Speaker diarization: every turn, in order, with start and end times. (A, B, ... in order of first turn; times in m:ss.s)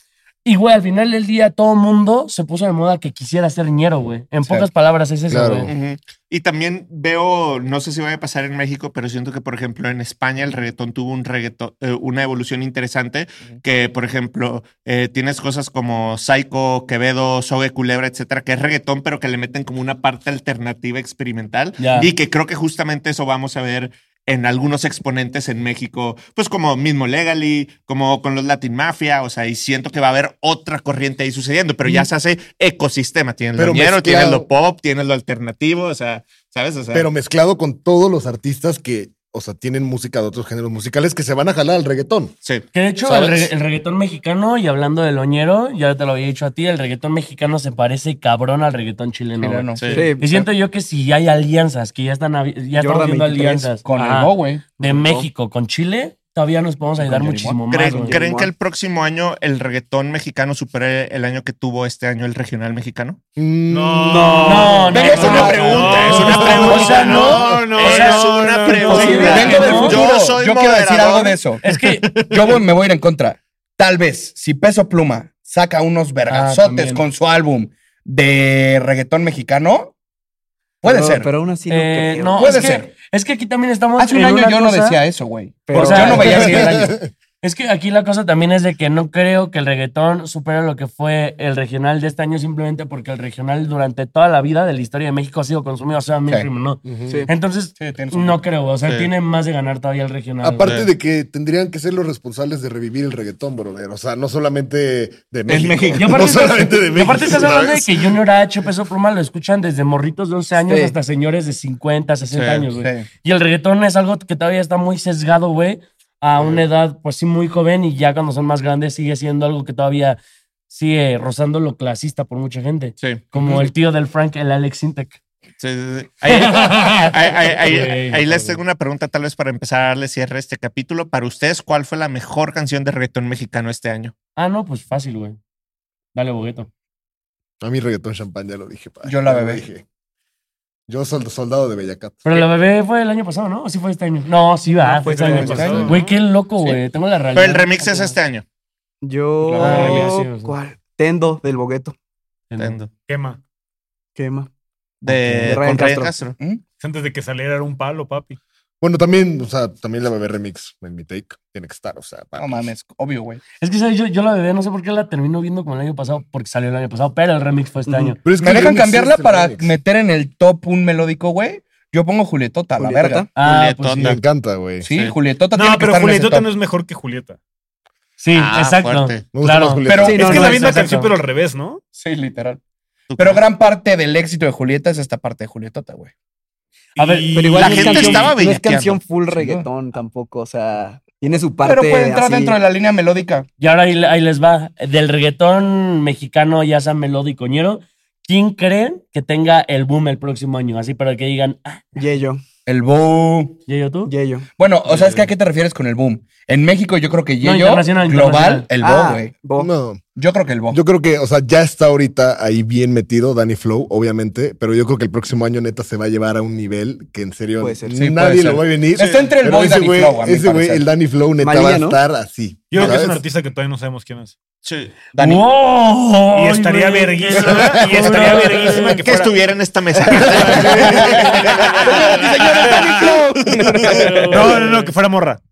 0:00.4-0:05.7 A
0:05.3-0:05.7 B
0:05.6-0:37.1 C
0:21.8-0:22.1 A
0:33.6-0:34.5 B
0:36.9-0:42.3 B
0:42.4-0:43.5 C
0:42.7-0:58.2 A
0:49.4-0:50.0 D
0:49.8-0:50.1 C
0:49.9-0:50.4 E
0:52.8-0:53.8 E
0:53.8-0:54.7 D
0:54.8-0:55.3 E
0:57.0-0:57.6 D
0:57.7-1:03.2 C
0:57.8-0:58.5 E
1:03.4-1:04.4 B
1:03.7-1:09.6 F
1:04.0-1:05.6 E
1:04.4-1:08.2 A
1:04.9-1:07.1 D
1:04.9-1:11.4 C
1:05.9-1:07.6 B
1:08.9-1:10.0 A
1:08.9-1:09.9 E
1:09.0-1:11.6 D
1:11.6-1:12.1 A
1:12.0-1:12.6 C
1:12.2-1:19.9 D
1:16.3-1:17.0 A
1:20.8-1:21.3 D
1:20.8-1:22.6 E
1:21.7-1:25.0 A
1:22.3-1:22.9 D
1:24.0-1:27.0 D
1:25.6-1:26.6 E
1:25.7-1:40.8 A
1:26.3-1:27.1 B
1:36.8-1:37.2 B
1:37.8-1:38.4 D
1:40.4-1:48.2 B
1:40.6-1:40.9 C
1:45.5-1:46.5 E
1:45.9-2:05.2 A
1:50.6-1:50.9 E
1:52.3-1:52.7 C
1:52.7-1:53.0 D
2:03.0-2:03.6 C
2:05.6-2:14.1 C
2:06.3-2:08.2 A
2:14.4-2:15.4 A
2:16.1-2:16.7 A
2:17.6-2:19.8 B
2:19.0-2:19.6 D
2:20.9-2:22.2 B
2:22.2-2:28.1 A
2:24.8-2:25.9 E
2:25.1-2:26.2 F
2:25.3-2:26.0 D
2:27.3-2:28.4 C
2:29.0-2:32.0 E
2:29.4-2:30.0 D
2:29.6-2:30.6 A
2:32.5-2:32.8 A
2:32.6-2:32.9 C
2:33.1-2:33.4 F
2:34.2-2:34.5 E
2:35.0-2:36.4 C
2:35.4-2:36.1 E
2:36.8-2:38.4 F
2:38.8-2:42.7 B
2:42.4-2:43.4 D
2:43.6-2:48.2 A
2:47.9-2:48.2 E
2:48.2-2:49.7 B
2:48.4-2:53.3 D
2:52.8-2:53.4 E
2:53.4-2:54.2 A
2:53.4-2:54.2 C
2:54.0-2:54.9 B
2:54.8-2:56.5 D
2:55.5-2:57.4 F
2:58.2-3:01.1 A
2:58.3-2:59.3 C
2:59.3-3:00.4 B
2:59.8-3:01.1 D
3:00.0-3:00.8 E
3:00.1-3:01.8 F
3:02.0-3:02.6 D
3:03.1-3:03.4 C
3:03.2-3:06.1 D
3:07.0-3:08.3 F
3:07.0-3:08.3 A
3:07.3-3:12.6 E
3:07.6-3:09.0 C
3:09.3-3:09.7 D
3:11.6-3:13.5 D
3:13.6-3:22.0 A
3:21.9-3:22.4 E
3:22.6-3:23.6 D
3:23.7-3:24.1 A
3:24.0-3:24.5 E
3:24.6-3:29.3 D
3:27.4-3:28.7 A
3:28.8-3:29.7 E
3:29.5-3:30.0 B
3:30.2-3:30.8 D
3:30.7-3:43.2 B
3:37.6-3:38.0 E
3:37.9-3:40.9 D
3:41.4-3:42.0 E
3:42.7-3:44.4 F
3:44.6-3:45.0 C
3:45.1-3:45.4 D
3:45.2-3:49.0 A
3:46.3-3:49.3 F
3:47.4-3:48.9 D
3:48.8-3:52.8 C
3:50.1-3:51.3 B
3:50.2-3:51.2 F
3:50.5-3:54.7 D
3:52.1-3:53.1 F
3:52.8-3:54.5 E
3:53.8-3:55.4 F